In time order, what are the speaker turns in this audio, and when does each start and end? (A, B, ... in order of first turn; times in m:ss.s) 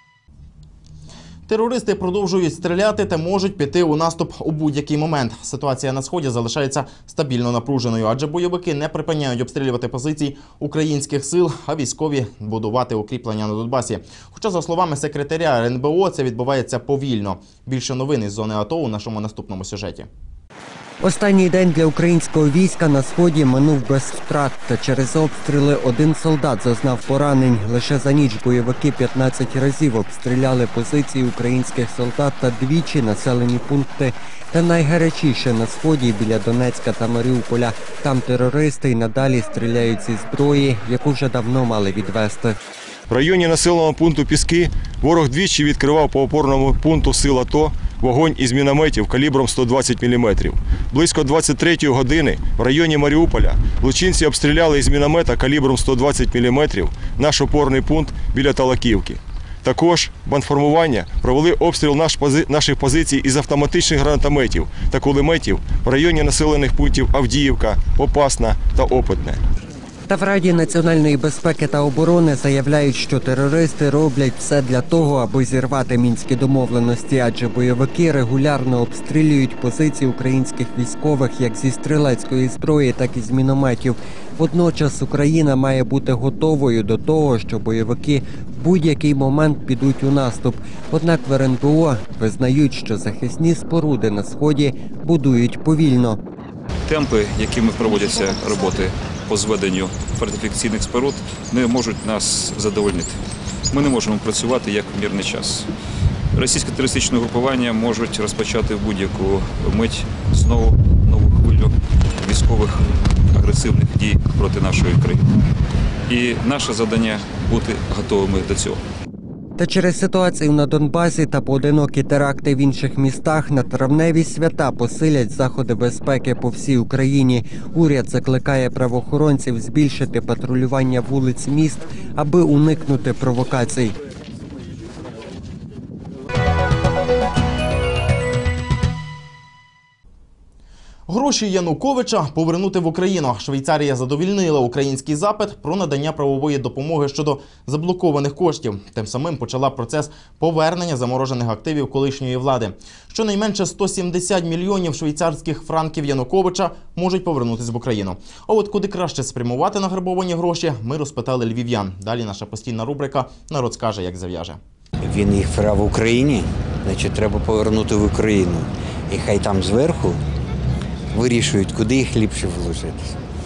0:01.5-0:20.1 A
0:21.0-0:42.6 B
0:43.1-1:09.4 C
1:10.1-1:36.2 B
1:36.9-1:43.2 D
1:43.7-1:45.7 D
1:46.4-1:55.2 D
1:56.1-1:58.8 D
1:59.6-2:14.0 B
2:21.1-2:44.6 A
2:45.0-2:50.2 E
2:51.1-2:53.1 E